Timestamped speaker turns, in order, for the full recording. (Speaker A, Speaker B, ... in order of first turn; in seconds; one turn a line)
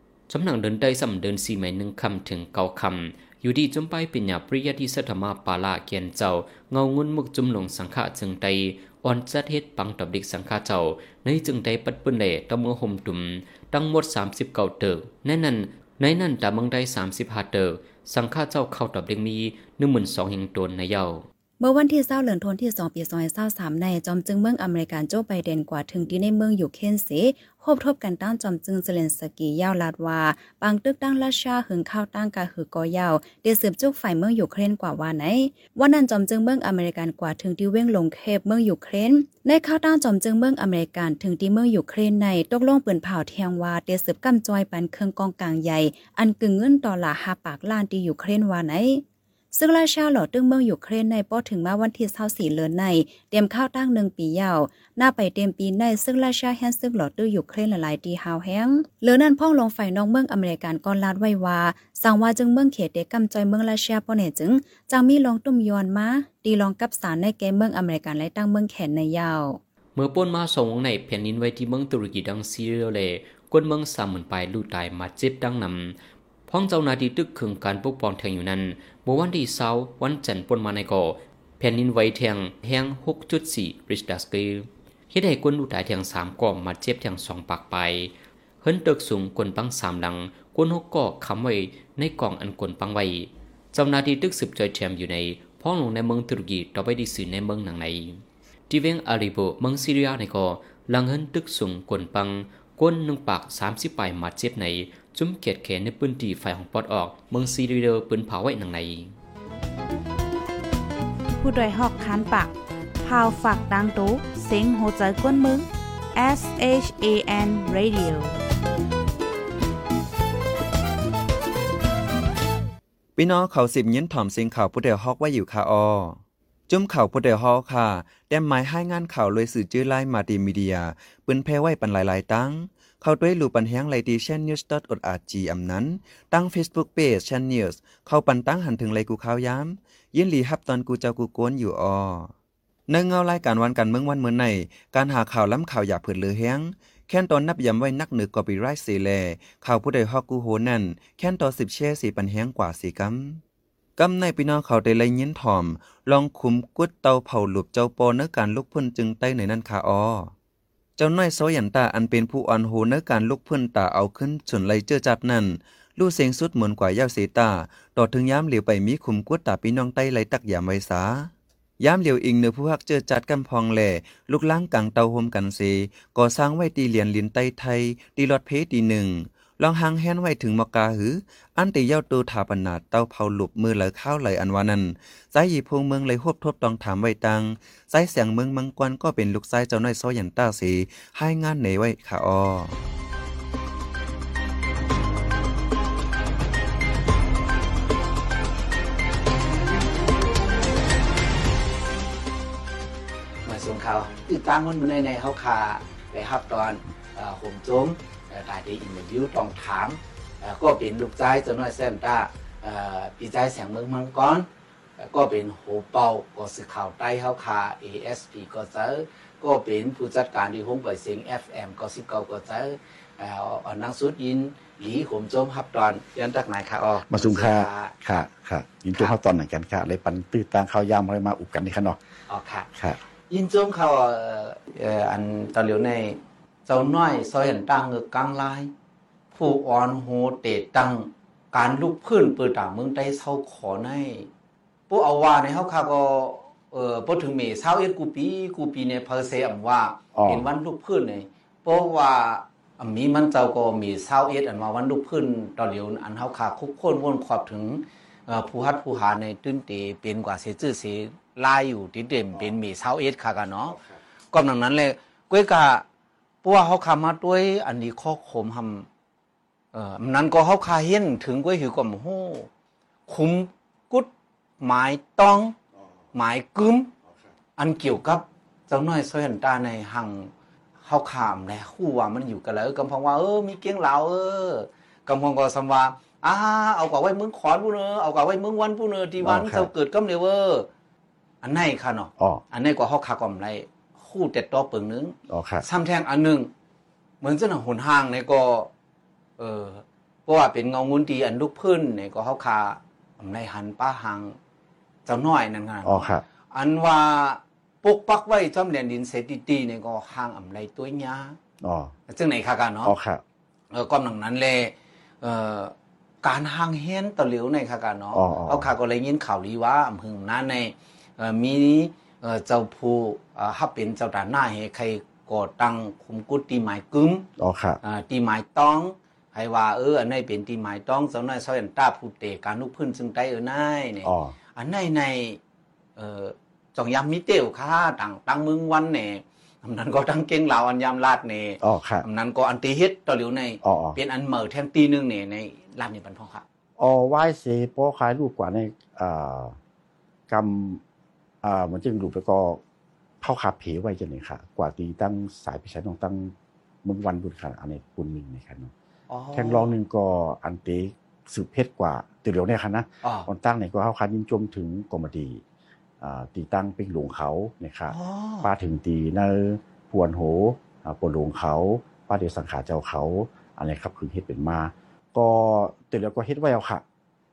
Speaker A: 0.3-21.2
Speaker B: 21.6-69.6
Speaker A: 69.9-76.0
Speaker A: 76.5-98.2
Speaker A: 98.7-109.1
Speaker C: 111.4-118.4
Speaker D: 123.2-142.3
Speaker D: 142.9-153.4
Speaker D: 154.0-160.3
Speaker D: 161.0-192.8
Speaker E: 203.4-214.5
Speaker E: 215.0-227.9
Speaker F: 227.1-232.0
Speaker E: 232.3-232.7
Speaker F: 232.7-233.0
Speaker E: 233.3-238.7
Speaker E: 239.3-244.3
Speaker E: 244.9-263.8
Speaker F: 250.1-250.4
Speaker E: 264.3-265.8
Speaker E: 266.4-268.9
Speaker E: 269.7-272.5
Speaker E: 273.1-275.6
Speaker E: 276.1-276.9
Speaker E: 277.6-280.3
Speaker E: 280.8-290.7
Speaker F: 289.2-289.7
Speaker E: 291.4-296.5
Speaker F: 292.2-292.4
Speaker F: 295.3-295.6
Speaker E: 297.2-298.7
Speaker E: 299.4-304.4
Speaker E: 305.0-311.4
Speaker F: 305.8-306.2
Speaker F: 311.6-311.9
Speaker E: 312.1-312.9
Speaker F: 312.8-313.2
Speaker E: 313.7-327.2
Speaker F: 318.1-318.7
Speaker F: 327.4-327.8
Speaker E: 327.8-335.4
Speaker F: 334.0-334.3
Speaker E: 335.9-346.4
Speaker F: 341.6-342.0
Speaker F: 343.6-344.0
Speaker F: 346.8-349.6
Speaker F: 350.3-350.8
Speaker F: 351.4-352.6
Speaker F: 353.2-358.7
Speaker E: 359.1-359.7
Speaker F: 359.3-365.4
Speaker F: 366.0-376.8
Speaker E: 367.9-368.5